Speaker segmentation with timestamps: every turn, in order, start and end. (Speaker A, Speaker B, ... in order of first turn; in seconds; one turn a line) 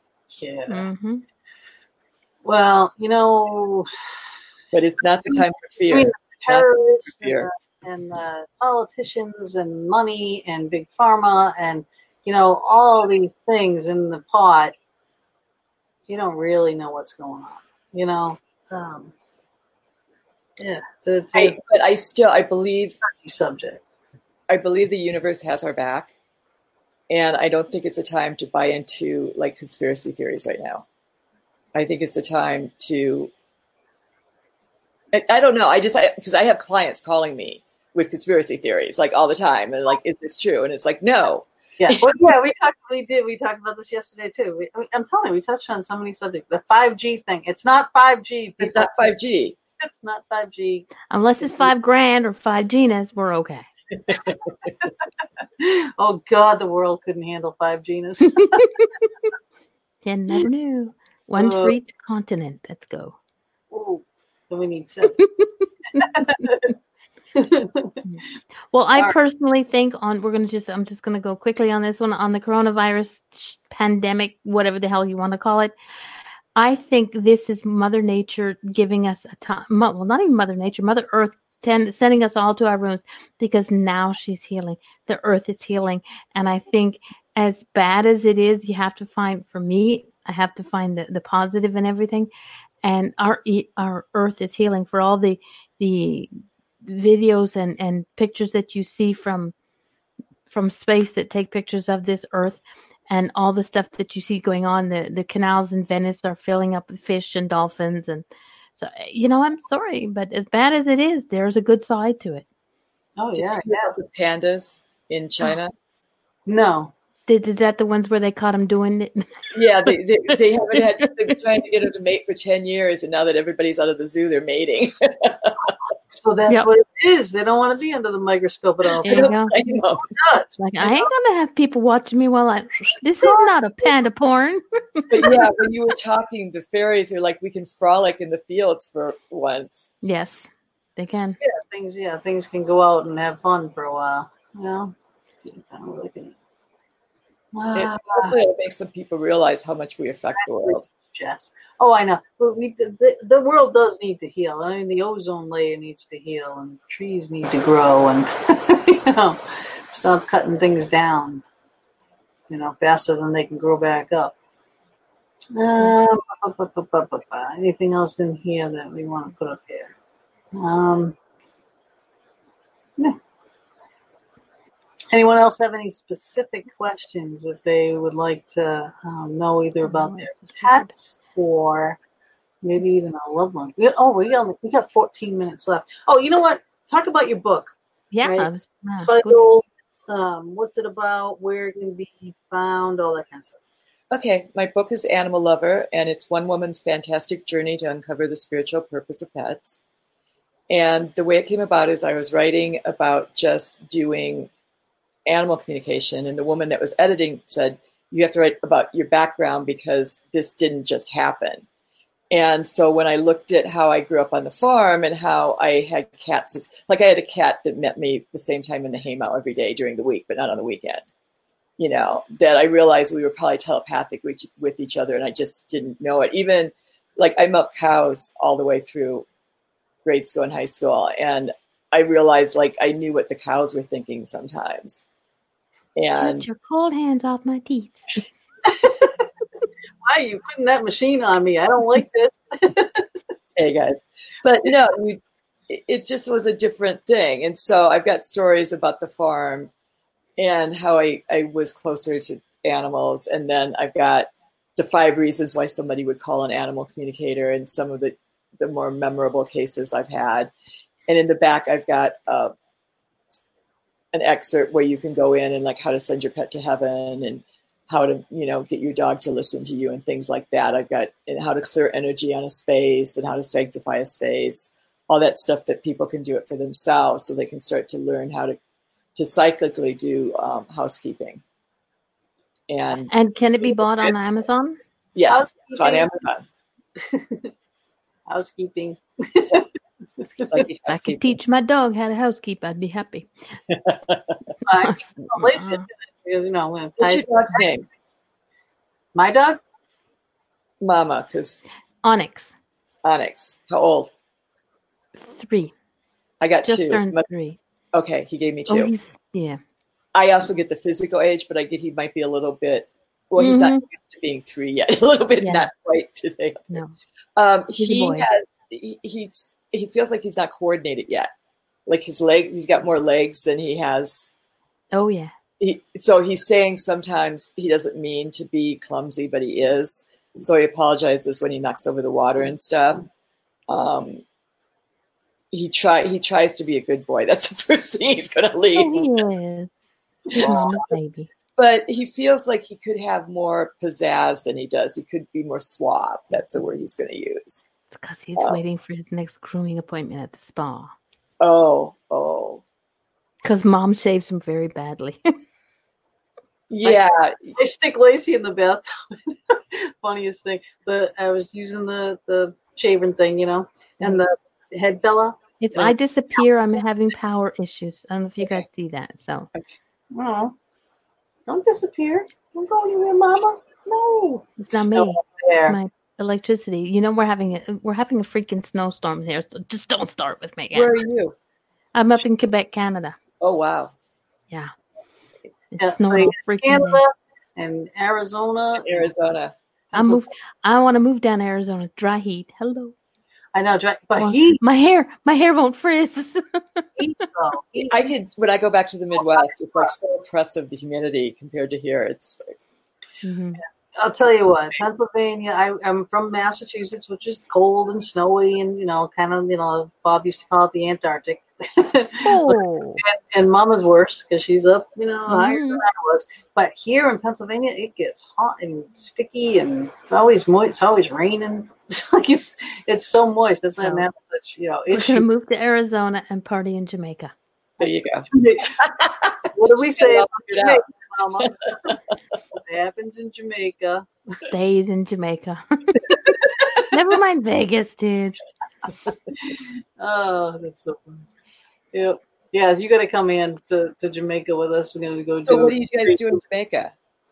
Speaker A: 0.3-0.9
Speaker B: 0.7-1.2
Speaker A: 2.4-3.9
Speaker C: 4.7-7.5
Speaker A: 5.3-14.7
Speaker A: 16.1-19.1
Speaker A: 20.6-21.6
Speaker C: 21.3-23.0
Speaker A: 23.0-23.8
Speaker C: 24.5-26.1
Speaker C: 27.1-30.8
Speaker C: 31.7-33.3
Speaker C: 35.1-42.2
Speaker A: 41.8-49.1
Speaker C: 48.6-49.5
Speaker A: 49.8-50.9
Speaker B: 51.1-53.6
Speaker A: 51.4-51.7
Speaker C: 54.1-54.5
Speaker A: 55.6-58.7
Speaker B: 58.4-59.0
Speaker B: 60.0-63.1
Speaker A: 61.4-61.8
Speaker A: 63.7-65.2
Speaker B: 65.1-66.6
Speaker A: 66.0-66.7
Speaker A: 67.3-68.0
Speaker B: 68.0-75.7
Speaker B: 76.5-92.3
Speaker B: 92.8-96.3
Speaker B: 96.8-99.5
Speaker B: 100.5-112.5
Speaker A: 113.2-113.9
Speaker C: 113.3-115.7
Speaker A: 116.5-116.9
Speaker B: 117.3-119.9
Speaker C: 119.5-125.7
Speaker A: 126.1-129.3
Speaker C: 129.0-130.1
Speaker B: 129.0-129.5
Speaker A: 130.0-131.1
Speaker B: 130.6-135.1
Speaker A: 133.2-133.9
Speaker C: 135.1-139.9
Speaker B: 140.0-141.4
Speaker A: 141.4-146.3
Speaker A: 147.5-148.3
Speaker C: 147.7-150.8
Speaker A: 150.4-161.4
Speaker A: 162.5-164.3
Speaker A: 165.5-169.9
Speaker A: 170.5-171.1
Speaker A: 175.1-182.0
Speaker B: 179.8-180.9
Speaker A: 182.6-187.7
Speaker B: 188.1-189.4
Speaker A: 188.2-193.6
Speaker C: 194.1-199.8
Speaker C: 200.7-204.5
Speaker C: 205.2-211.7
Speaker C: 212.3-221.0
Speaker C: 221.8-229.2
Speaker C: 230.0-235.0
Speaker C: 235.9-236.5
Speaker B: 236.2-238.2
Speaker A: 238.6-239.2
Speaker A: 240.0-243.1
Speaker C: 243.6-249.7
Speaker C: 250.4-260.5
Speaker C: 261.1-262.5
Speaker C: 264.1-278.6
Speaker C: 279.1-281.4
Speaker C: 282.7-283.1
Speaker B: 283.1-284.8
Speaker C: 283.8-284.1
Speaker C: 285.1-286.4
Speaker A: 285.3-286.1
Speaker A: 287.0-287.5
Speaker A: 288.3-289.7
Speaker C: 290.4-291.4
Speaker B: 290.9-293.3
Speaker C: 293.7-294.4
Speaker B: 294.6-295.8
Speaker A: 294.6-297.4
Speaker C: 297.0-297.9
Speaker A: 299.1-299.6
Speaker C: 300.8-301.6
Speaker B: 302.0-302.5
Speaker C: 303.0-304.1
Speaker B: 305.2-305.7
Speaker C: 306.4-307.3
Speaker B: 306.6-307.6
Speaker C: 307.9-308.9
Speaker B: 308.7-309.6
Speaker C: 310.1-316.8
Speaker B: 313.4-313.8
Speaker B: 315.4-315.7
Speaker B: 316.7-316.9
Speaker C: 317.4-321.3
Speaker B: 317.8-318.2
Speaker C: 321.9-324.3
Speaker B: 324.9-325.3
Speaker C: 325.6-333.0
Speaker C: 333.7-334.2
Speaker C: 335.5-339.1
Speaker B: 338.7-339.7
Speaker C: 340.3-340.9
Speaker B: 340.3-341.3
Speaker C: 341.6-347.6
Speaker B: 348.0-350.9
Speaker C: 351.4-352.6
Speaker B: 353.4-355.2
Speaker C: 356.7-357.6
Speaker A: 356.8-365.9
Speaker B: 365.6-369.5
Speaker A: 370.1-370.5
Speaker A: 371.5-375.8
Speaker B: 374.6-380.9
Speaker C: 380.7-381.4
Speaker B: 381.9-383.2
Speaker C: 383.4-383.9
Speaker B: 385.7-387.0
Speaker A: 385.8-389.1
Speaker C: 388.8-389.5
Speaker A: 389.9-390.3
Speaker B: 389.9-392.9
Speaker A: 393.5-394.6
Speaker B: 394.2-397.2
Speaker A: 397.0-397.9
Speaker C: 397.9-402.6
Speaker A: 399.4-399.9
Speaker B: 403.2-403.6
Speaker A: 403.9-425.2
Speaker B: 412.2-413.0
Speaker B: 415.3-415.8
Speaker B: 423.8-424.1
Speaker B: 424.9-427.3
Speaker C: 427.8-430.8
Speaker A: 428.3-428.8
Speaker A: 429.5-431.9
Speaker C: 431.4-432.1
Speaker A: 432.6-434.4
Speaker B: 434.5-436.2
Speaker B: 436.9-438.4
Speaker A: 439.4-441.3
Speaker A: 441.9-446.3
Speaker C: 445.4-446.9